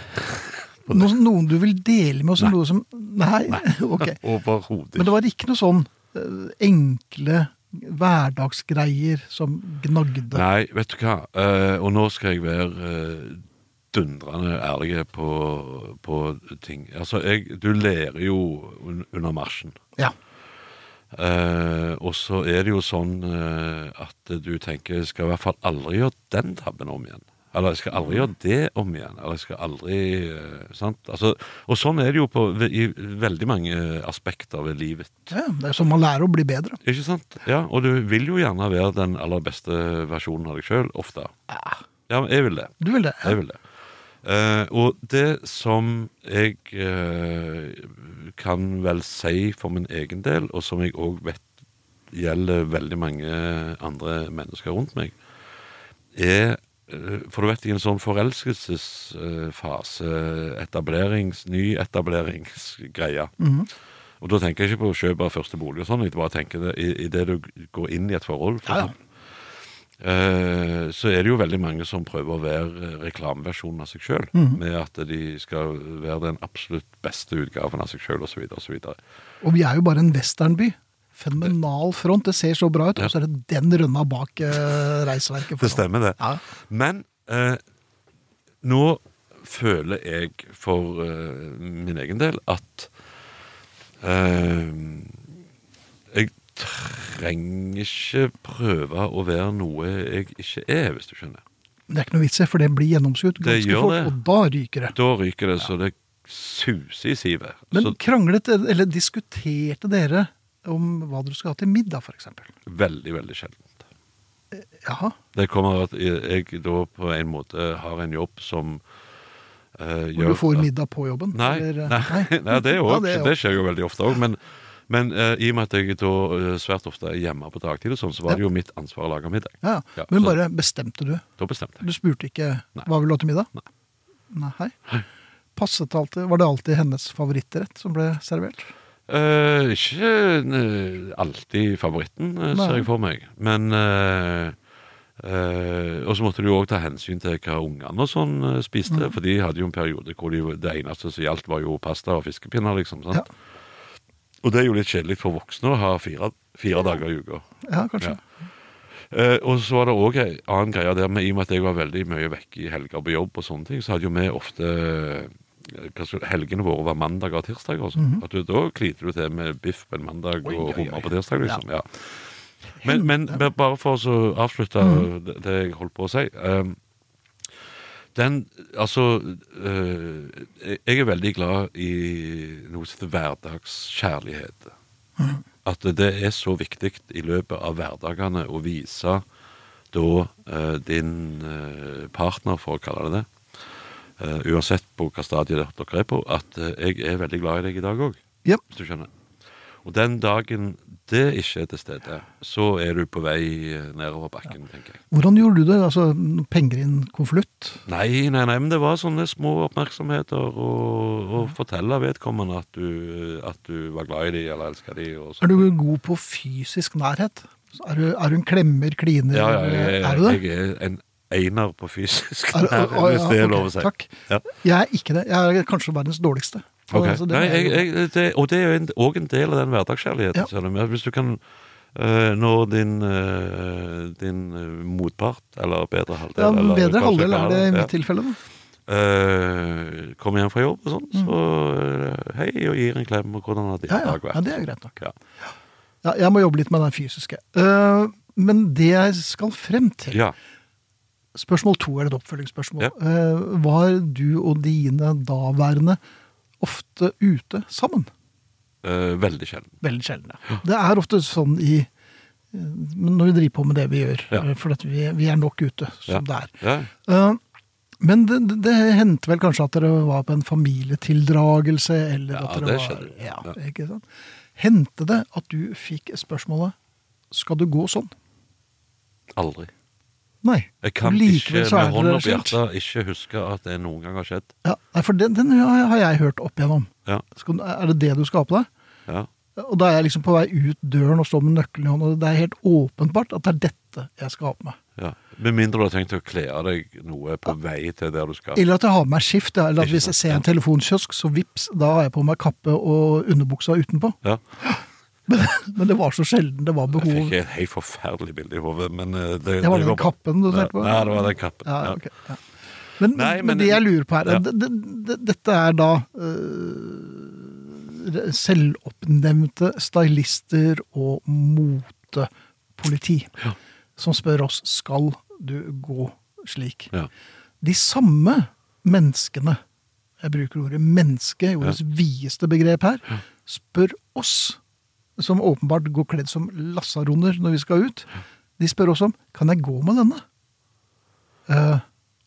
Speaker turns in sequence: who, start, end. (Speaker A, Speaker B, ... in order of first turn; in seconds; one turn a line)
Speaker A: 0.1-1.1
Speaker B: 0.9-4.2
Speaker A: 3.5-5.1
Speaker B: 5.0-10.4
Speaker A: 10.3-19.8
Speaker A: 21.1-35.3
Speaker B: 35.3-36.8
Speaker A: 36.8-41.3
Speaker B: 41.5-41.8
Speaker A: 42.1-43.6
Speaker B: 42.8-43.4
Speaker A: 44.2-51.4
Speaker A: 52.1-55.1
Speaker A: 56.1-63.3
Speaker B: 63.4-63.7
Speaker A: 64.2-68.9
Speaker B: 68.7-68.9
Speaker A: 70.0-79.0
Speaker B: 74.3-74.6
Speaker B: 79.4-86.4
Speaker A: 85.6-87.6
Speaker A: 88.6-92.9
Speaker A: 94.0-95.3
Speaker A: 96.1-101.4
Speaker B: 101.9-104.9
Speaker A: 103.4-104.1
Speaker A: 104.9-108.0
Speaker B: 107.7-112.5
Speaker A: 112.6-113.8
Speaker B: 114.5-115.2
Speaker A: 115.3-118.8
Speaker A: 119.8-120.7
Speaker B: 120.1-123.3
Speaker A: 121.3-130.4
Speaker B: 129.6-131.2
Speaker A: 131.4-131.8
Speaker B: 131.8-133.5
Speaker B: 134.3-134.8
Speaker B: 135.6-138.7
Speaker A: 139.1-144.6
Speaker B: 142.5-142.9
Speaker A: 145.2-153.3
Speaker A: 154.4-157.4
Speaker B: 157.6-158.2
Speaker A: 159.1-176.8
Speaker B: 167.9-168.2
Speaker B: 170.5-171.6
Speaker B: 172.8-173.4
Speaker B: 174.8-175.1
Speaker A: 178.1-184.7
Speaker A: 185.6-189.2
Speaker A: 189.9-193.3
Speaker A: 194.2-199.1
Speaker A: 199.8-205.0
Speaker B: 205.1-207.8
Speaker A: 207.9-215.7
Speaker B: 215.4-220.4
Speaker A: 219.3-224.4
Speaker B: 222.5-227.9
Speaker A: 226.9-231.4
Speaker A: 231.9-237.9
Speaker B: 236.3-238.4
Speaker A: 238.8-245.1
Speaker B: 243.9-245.0
Speaker B: 246.0-250.2
Speaker B: 251.3-256.0
Speaker B: 256.6-258.1
Speaker A: 258.8-259.8
Speaker B: 259.8-261.9
Speaker B: 262.5-266.5
Speaker A: 266.1-266.9
Speaker B: 267.0-267.4
Speaker B: 268.0-274.0
Speaker A: 272.3-273.6
Speaker B: 274.6-276.8
Speaker B: 277.3-278.1
Speaker A: 279.3-279.7
Speaker B: 280.4-282.6
Speaker A: 280.8-284.5
Speaker B: 284.6-288.7
Speaker B: 289.6-294.8
Speaker A: 294.9-298.6
Speaker B: 298.5-307.4
Speaker A: 299.8-300.4
Speaker A: 306.9-312.0
Speaker B: 309.6-312.4
Speaker B: 313.0-323.3
Speaker A: 313.1-314.4
Speaker B: 324.0-326.9
Speaker B: 327.6-329.6
Speaker B: 330.2-334.6
Speaker B: 335.2-340.2
Speaker B: 341.5-341.8